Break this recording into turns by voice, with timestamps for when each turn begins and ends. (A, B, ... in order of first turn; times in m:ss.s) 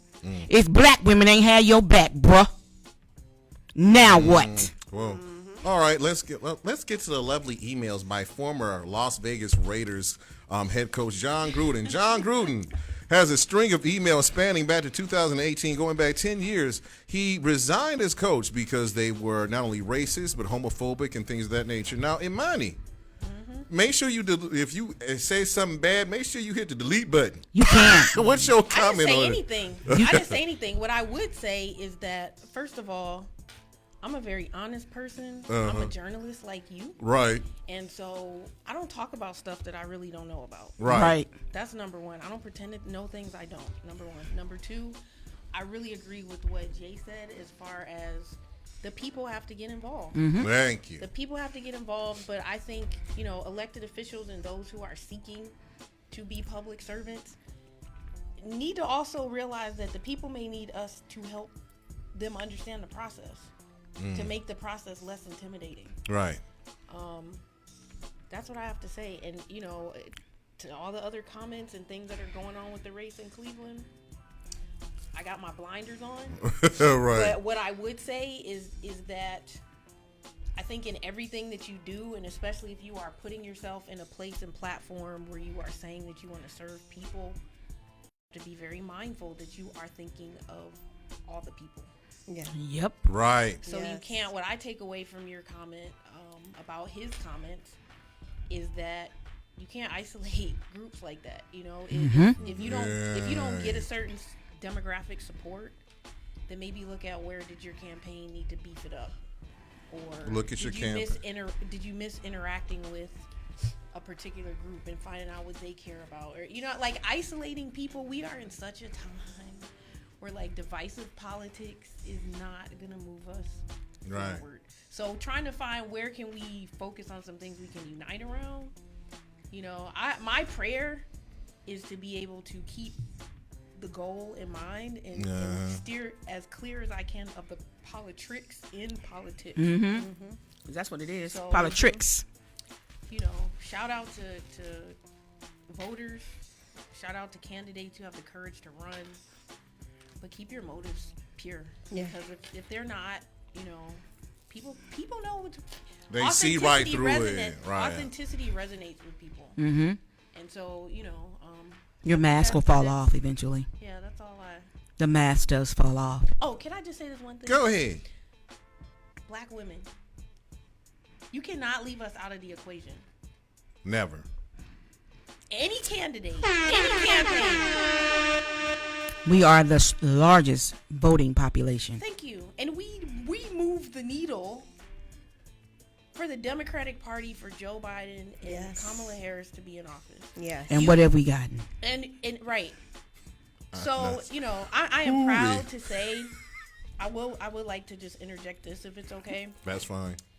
0:00.2-0:00.5 A
0:00.5-0:02.5 B
0:03.7-0:04.7 B
0:04.0-0:22.8 A
0:05.0-0:05.6 C
0:23.2-0:23.7 D
0:23.7-0:30.4 A
0:27.5-0:28.4 B
0:28.7-0:33.3 D
0:34.0-0:37.0 D
0:35.5-0:35.9 A
0:37.0-0:37.5 A
0:37.6-0:41.0 D
0:40.8-0:41.2 A
0:40.8-0:41.3 B
0:41.5-0:45.0 D
0:45.5-0:55.5 D
0:50.1-0:50.5 B
0:50.4-0:51.0 A
0:56.1-0:57.4 D
0:58.4-1:01.5 D
1:02.1-1:03.5 D
1:04.0-1:04.3 A
1:04.1-1:06.0 D
1:06.1-1:06.4 A
1:06.9-1:07.4 D
1:08.3-1:13.9 D
1:15.1-1:19.6 D
1:16.4-1:17.4 A
1:20.6-1:27.4 D
1:28.3-1:31.9 D
1:32.3-1:32.6 C
1:32.5-1:32.9 B
1:33.0-1:33.6 A
1:33.6-1:37.8 D
1:33.6-1:34.2 C
1:38.5-1:45.8 D
1:41.9-1:42.4 B
1:42.4-1:43.9 A
1:46.5-1:49.2 D
1:49.9-1:53.3 D
1:50.2-1:51.2 A
1:53.9-1:59.7 D
2:00.2-2:08.7 D
2:04.0-2:04.4 A
2:09.5-2:11.0 D
2:11.6-2:13.0 D
2:13.8-2:20.1 D
2:15.1-2:15.8 A
2:19.6-2:20.1 B
2:19.9-2:20.4 C
2:20.6-2:22.2 B
2:21.2-2:22.0 D
2:23.1-2:25.0 D
2:25.7-2:26.3 D
2:26.9-2:29.2 D
2:30.2-2:39.6 D
2:36.1-2:38.1 A
2:39.6-2:40.0 B
2:40.3-2:43.0 D
2:42.0-2:43.7 B
2:43.8-2:44.7 D
2:45.0-2:46.3 B
2:46.4-2:47.8 D
2:47.4-2:48.0 A
2:49.2-2:49.9 D
2:51.3-2:53.0 D
2:53.8-2:54.3 A
2:55.5-2:57.8 D
2:59.2-3:02.0 B
3:01.9-3:04.7 D
3:06.1-3:11.1 D
3:08.4-3:09.1 C
3:10.4-3:10.8 C
3:10.7-3:11.6 B
3:11.8-3:12.8 D
3:13.7-3:14.3 A
3:13.7-3:16.3 D
3:15.0-3:15.8 A
3:17.0-3:19.6 D
3:19.6-3:20.2 A